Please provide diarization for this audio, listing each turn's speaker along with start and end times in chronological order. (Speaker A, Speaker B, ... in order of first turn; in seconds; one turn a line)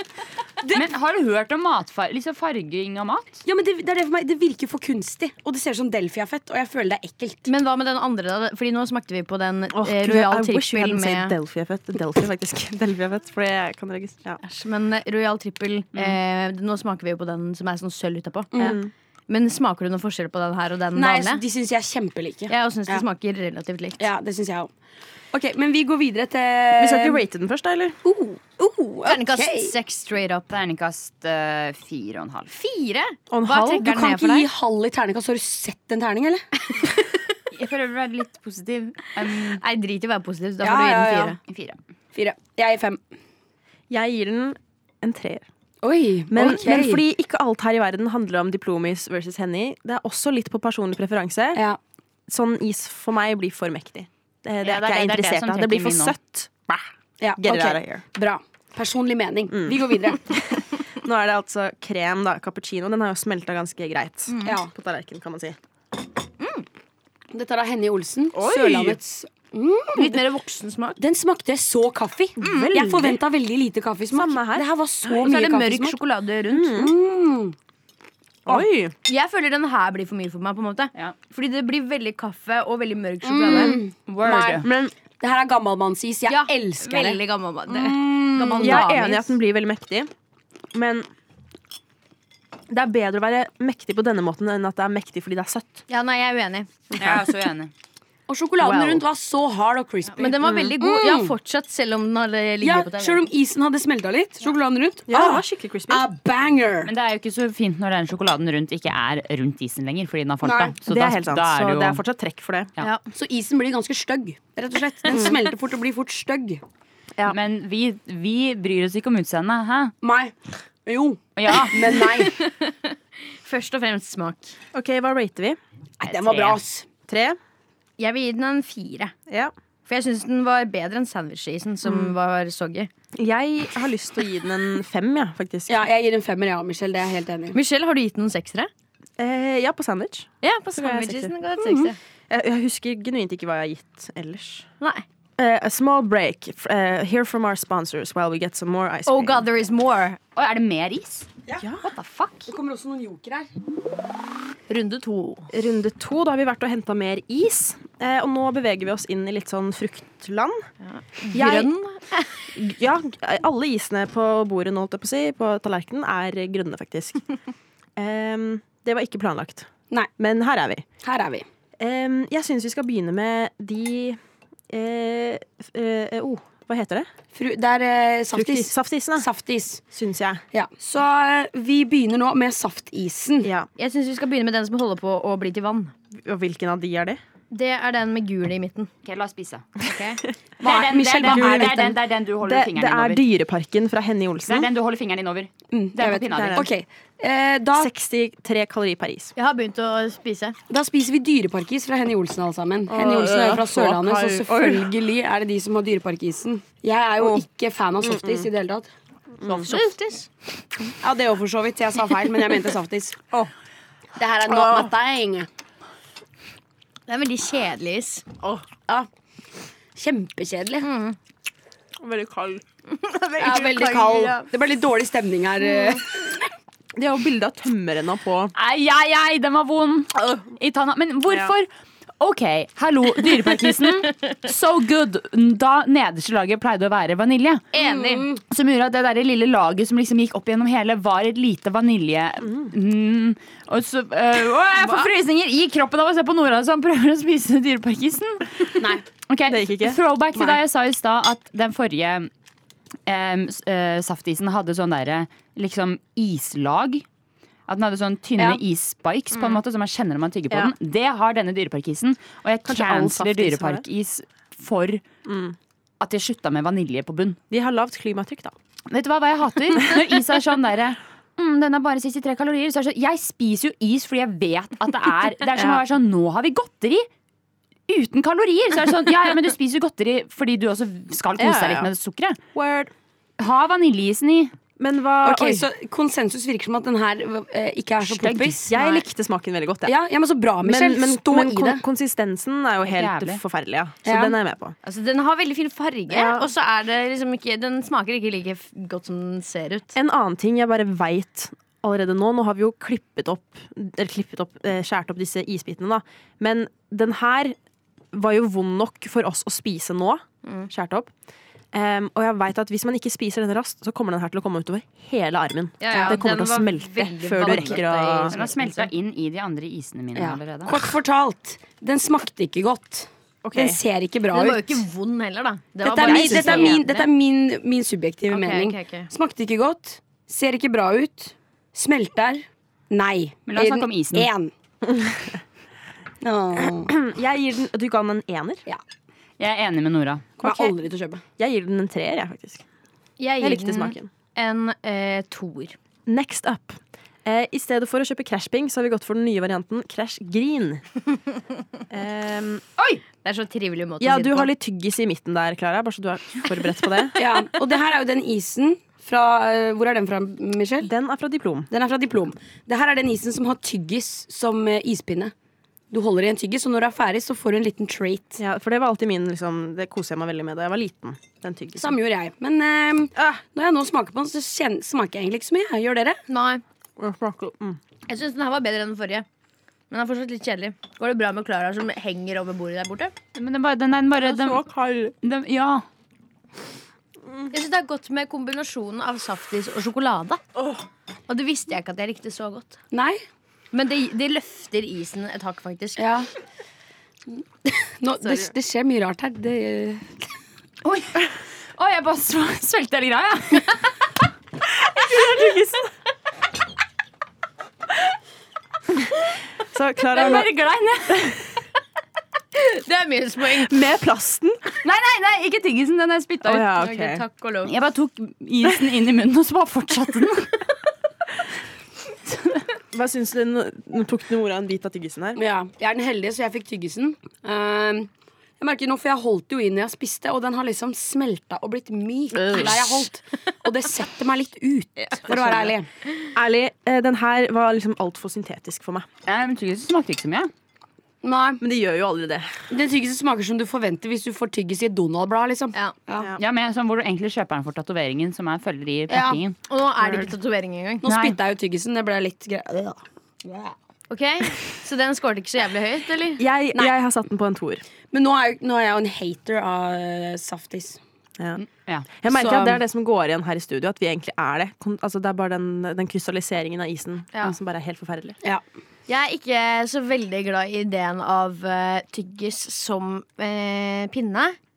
Speaker A: 0.7-3.4
Speaker B: 3.4-7.4
Speaker C: 7.5-11.3
Speaker D: 9.7-14.4
Speaker C: 14.4-21.4
Speaker B: 18.5-18.8
Speaker D: 18.6-18.9
Speaker B: 20.9-23.0
Speaker C: 22.5-24.0
Speaker B: 24.0-24.7
Speaker B: 25.3-27.2
Speaker D: 26.8-28.0
Speaker B: 28.1-28.4
Speaker C: 28.2-30.5
Speaker B: 29.0-29.7
Speaker A: 30.5-32.5
Speaker C: 32.5-34.5
Speaker D: 33.3-33.9
Speaker B: 33.8-36.5
Speaker C: 36.7-37.2
Speaker A: 37.5-39.6
Speaker C: 39.2-41.4
Speaker B: 40.6-41.4
Speaker A: 41.5-41.8
Speaker B: 42.1-43.0
Speaker D: 43.9-45.5
Speaker B: 45.8-47.0
Speaker D: 46.3-51.6
Speaker D: 52.3-58.0
Speaker A: 54.6-56.1
Speaker B: 57.2-60.3
Speaker D: 59.5-65.6
Speaker C: 64.3-64.5
Speaker B: 64.4-64.7
Speaker B: 67.3-70.2
Speaker D: 68.3-69.0
Speaker C: 69.9-71.0
Speaker B: 71.0-76.0
Speaker C: 72.4-72.7
Speaker D: 72.4-73.2
Speaker D: 74.1-74.7
Speaker C: 75.1-76.8
Speaker D: 76.5-76.9
Speaker B: 76.7-77.5
Speaker D: 78.5-78.9
Speaker C: 79.0-83.8
Speaker B: 83.2-88.9
Speaker A: 84.1-84.7
Speaker D: 84.6-84.9
Speaker C: 86.3-89.3
Speaker D: 88.6-90.1
Speaker D: 90.7-91.1
Speaker D: 92.7-95.8
Speaker C: 95.9-96.7
Speaker D: 96.9-97.2
Speaker A: 97.0-97.7
Speaker B: 98.3-101.3
Speaker D: 98.6-99.0
Speaker C: 100.2-103.3
Speaker B: 102.6-106.9
Speaker D: 105.1-106.0
Speaker A: 106.8-112.0
Speaker B: 110.4-110.8
Speaker D: 110.8-112.7
Speaker B: 113.1-116.6
Speaker D: 115.1-115.3
Speaker A: 117.3-119.9
Speaker B: 120.0-122.4
Speaker A: 121.3-122.2
Speaker C: 121.9-124.6
Speaker D: 124.7-125.6
Speaker B: 126.0-126.8
Speaker A: 126.0-126.6
Speaker D: 127.1-127.4
Speaker C: 128.0-129.1
Speaker C: 129.8-132.9
Speaker D: 131.8-132.1
Speaker D: 133.2-135.8
Speaker B: 135.7-137.6
Speaker C: 137.5-138.7
Speaker D: 139.2-141.3
Speaker C: 140.4-142.0
Speaker B: 141.6-141.9
Speaker D: 142.3-144.7
Speaker D: 145.4-149.5
Speaker C: 149.1-150.2
Speaker A: 150.3-151.3
Speaker D: 151.6-151.8
Speaker C: 151.8-152.5
Speaker B: 152.5-153.5
Speaker C: 154.7-155.5
Speaker D: 155.5-160.7
Speaker C: 160.8-162.5
Speaker D: 161.3-161.7
Speaker D: 162.5-167.2
Speaker D: 168.0-170.8
Speaker B: 171.0-171.5
Speaker D: 171.8-174.2
Speaker D: 174.7-177.1
Speaker B: 177.3-179.8
Speaker D: 178.3-179.3
Speaker D: 179.9-180.4
Speaker B: 180.5-183.5
Speaker D: 183.4-183.7
Speaker C: 183.8-185.9
Speaker D: 186.1-187.2
Speaker C: 187.5-188.9
Speaker A: 189.0-189.7
Speaker C: 189.8-190.2
Speaker A: 190.6-193.2
Speaker B: 190.6-192.0
Speaker D: 191.3-191.7
Speaker D: 192.4-194.7
Speaker A: 194.5-196.7
Speaker B: 195.7-197.9
Speaker D: 196.1-196.7
Speaker D: 197.8-199.3
Speaker C: 199.3-200.6
Speaker B: 200.7-208.9
Speaker D: 202.9-204.9
Speaker D: 207.2-207.4
Speaker D: 208.0-208.5
Speaker D: 209.4-209.8
Speaker C: 209.7-210.3
Speaker B: 211.0-213.2
Speaker B: 214.2-215.5
Speaker D: 214.5-214.9
Speaker C: 217.1-218.2
Speaker D: 218.4-218.7
Speaker B: 219.9-220.9
Speaker C: 220.8-221.2
Speaker D: 222.0-224.5
Speaker C: 223.2-223.9
Speaker B: 223.4-226.5
Speaker D: 227.0-228.5
Speaker A: 228.5-231.7
Speaker D: 231.3-231.5
Speaker A: 232.2-237.7
Speaker C: 237.7-238.3
Speaker B: 237.8-238.4
Speaker A: 238.5-252.3
Speaker D: 249.5-250.0
Speaker B: 250.3-250.6
Speaker A: 253.1-257.0
Speaker A: 257.7-265.0
Speaker D: 262.6-263.8
Speaker D: 265.2-265.6
Speaker A: 266.0-267.4
Speaker D: 267.5-268.5
Speaker A: 268.9-277.1
Speaker D: 275.6-275.8
Speaker A: 277.9-282.4
Speaker D: 281.4-281.9
Speaker D: 282.5-282.9
Speaker A: 283.4-284.5
Speaker D: 284.8-285.7
Speaker B: 285.2-288.8
Speaker A: 288.0-288.7
Speaker D: 288.7-289.9
Speaker B: 289.9-291.8
Speaker D: 290.6-294.8
Speaker A: 292.8-293.4
Speaker B: 294.0-294.4
Speaker C: 294.8-299.9
Speaker D: 296.1-296.5
Speaker D: 299.9-307.6
Speaker D: 308.1-311.1
Speaker C: 310.4-310.7
Speaker D: 311.7-318.3
Speaker C: 315.8-318.9
Speaker A: 318.3-320.9
Speaker B: 320.2-324.8
Speaker D: 323.4-323.8
Speaker C: 324.3-326.8
Speaker B: 325.8-334.5
Speaker A: 326.0-327.1
Speaker D: 326.0-326.8
Speaker C: 328.3-329.1
Speaker A: 333.5-334.3
Speaker D: 334.9-335.3
Speaker B: 336.2-336.9
Speaker D: 336.6-338.6
Speaker A: 339.4-340.2
Speaker B: 340.4-341.2
Speaker D: 340.4-340.7
Speaker D: 341.4-342.6
Speaker C: 343.2-345.8
Speaker D: 343.4-344.1
Speaker D: 346.1-350.8
Speaker D: 351.9-352.6
Speaker C: 353.2-354.5
Speaker D: 354.0-357.2
Speaker B: 357.2-360.9
Speaker D: 360.8-361.7
Speaker B: 361.7-365.3
Speaker B: 365.9-368.4
Speaker D: 368.4-371.9
Speaker B: 371.8-376.2
Speaker C: 376.3-376.6
Speaker D: 377.0-377.8
Speaker C: 378.1-379.2
Speaker C: 379.9-383.1
Speaker A: 383.3-384.6
Speaker D: 384.2-385.1
Speaker A: 385.2-385.8
Speaker C: 387.5-390.4
Speaker D: 390.6-390.8
Speaker C: 391.3-392.8
Speaker B: 392.9-393.2
Speaker C: 393.7-396.1
Speaker B: 396.0-396.3
Speaker B: 397.7-400.3
Speaker C: 398.2-398.5
Speaker A: 400.8-403.8
Speaker D: 404.7-405.9
Speaker D: 409.6-410.5
Speaker A: 410.1-411.4
Speaker C: 412.5-413.8
Speaker D: 413.5-414.6
Speaker A: 414.8-416.7
Speaker D: 416.4-417.2
Speaker C: 416.7-417.7
Speaker A: 417.6-420.6
Speaker A: 422.3-422.6
Speaker D: 422.9-425.4
Speaker B: 425.4-435.9
Speaker D: 432.3-433.1
Speaker D: 435.3-435.8
Speaker D: 436.3-439.1
Speaker A: 439.2-440.5
Speaker B: 441.2-441.6
Speaker D: 441.6-442.5
Speaker B: 442.7-446.3
Speaker A: 446.4-449.5
Speaker B: 449.1-449.4
Speaker C: 449.7-451.0
Speaker D: 450.0-450.3
Speaker B: 451.0-453.7
Speaker A: 451.0-451.4
Speaker C: 454.1-456.4
Speaker D: 456.4-457.8
Speaker B: 458.1-461.0
Speaker D: 461.4-461.6
Speaker D: 462.2-468.4
Speaker B: 462.2-462.8
Speaker C: 469.1-474.6